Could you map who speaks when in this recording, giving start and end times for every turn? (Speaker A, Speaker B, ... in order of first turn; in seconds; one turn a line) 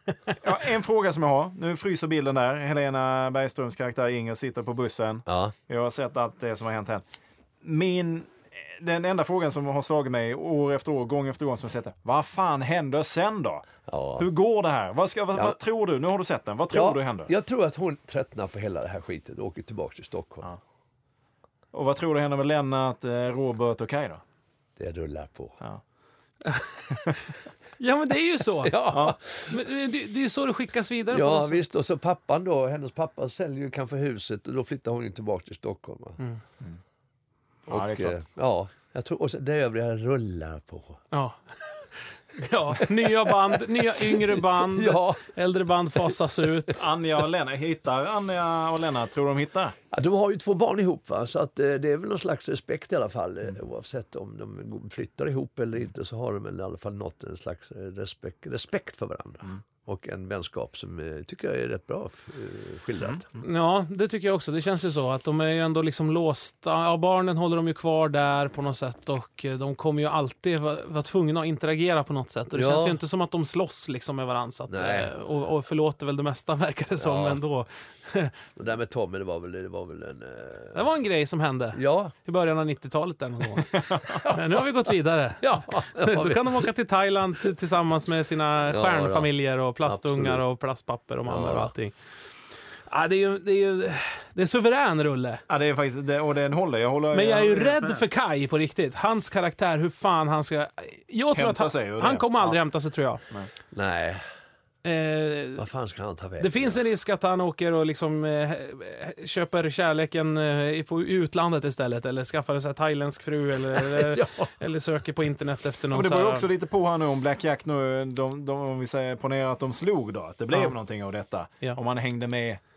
Speaker A: 0.4-7.0
Speaker B: 5.3-5.5
Speaker A: 7.6-17.3
Speaker B: 13.9-14.3
Speaker B: 16.7-20.5
Speaker A: 21.7-24.2
Speaker B: 24.8-25.6
Speaker C: 27.8-28.9
Speaker B: 28.6-29.5
Speaker C: 29.5-31.7
Speaker B: 31.1-36.2
Speaker B: 37.7-41.0
Speaker A: 37.7-38.2
Speaker C: 41.1-46.9
Speaker B: 43.9-45.2
Speaker A: 46.8-49.8
Speaker B: 49.9-63.2
Speaker C: 63.4-78.3
Speaker B: 72.5-73.0
Speaker B: 74.7-75.1
Speaker B: 77.0-77.4
Speaker B: 78.6-80.9
Speaker C: 80.7-83.8
Speaker B: 81.7-82.1
Speaker A: 83.8-84.2
Speaker B: 84.1-86.7
Speaker C: 84.3-91.9
Speaker B: 88.7-89.3
Speaker B: 89.8-90.4
Speaker B: 91.2-91.7
Speaker C: 92.9-95.4
Speaker A: 95.5-98.0
Speaker C: 97.1-103.2
Speaker A: 101.3-102.6
Speaker B: 103.7-104.2
Speaker C: 104.8-105.6
Speaker B: 105.6-106.8
Speaker C: 106.4-116.5
Speaker B: 113.7-114.5
Speaker A: 115.9-122.6